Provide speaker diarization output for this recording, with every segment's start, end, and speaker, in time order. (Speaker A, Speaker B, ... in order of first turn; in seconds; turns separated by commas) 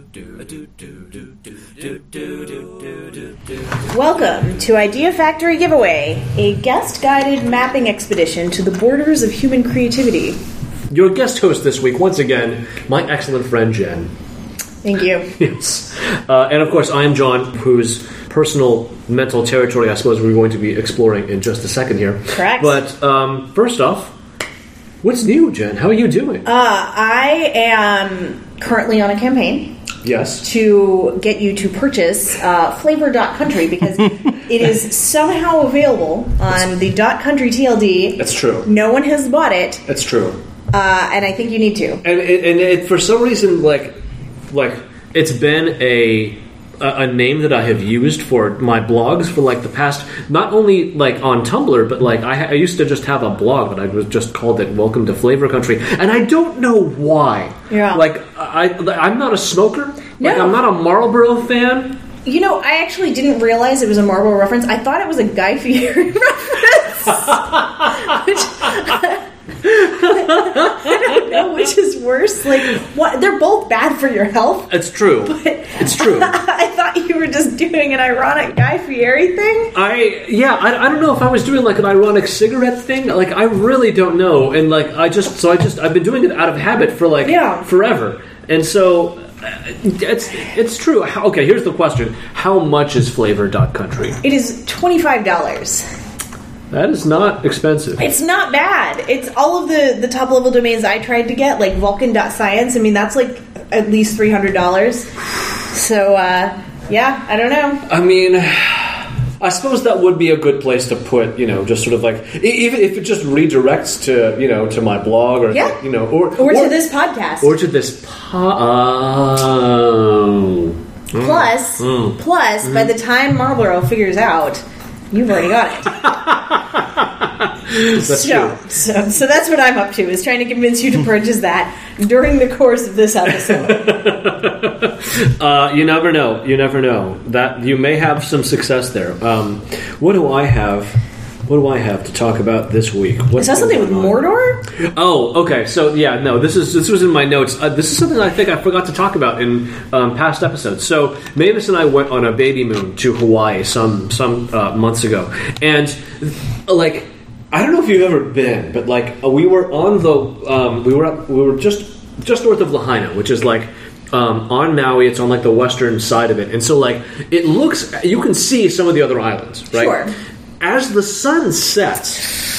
Speaker A: 1.8-2.9, Speaker B: 3.9-10.4, Speaker A: 10.9-14.1, Speaker B: 14.8-15.3, Speaker A: 15.4-24.1, Speaker B: 22.3-22.8, Speaker A: 25.0-26.4, Speaker B: 26.4-29.7, Speaker A: 30.0-30.4, Speaker B: 30.4-39.8, Speaker A: 38.2-38.7, Speaker A: 39.9-40.4, Speaker B: 40.7-42.0, Speaker A: 42.0-44.0, Speaker A: 44.5-62.0, Speaker B: 57.7-58.0, Speaker B: 60.2-60.6, Speaker B: 62.2-74.7, Speaker A: 69.7-71.3, Speaker A: 74.7-76.3, Speaker B: 75.2-79.7, Speaker A: 79.7-94.2, Speaker B: 87.2-87.6, Speaker B: 94.2-95.8, Speaker A: 96.7-98.0, Speaker B: 98.0-105.1, Speaker B: 105.7-107.8, Speaker A: 107.9-116.8, Speaker B: 115.5-115.8, Speaker B: 116.4-117.5, Speaker A: 117.4-122.9, Speaker B: 121.1-126.1, Speaker A: 126.0-127.0, Speaker A: 127.7-128.6, Speaker B: 127.7-133.9, Speaker A: 133.4-140.9, Speaker A: 141.5-144.2, Speaker B: 143.3-144.7, Speaker A: 144.8-170.0, Speaker B: 169.7-170.1, Speaker A: 170.6-172.3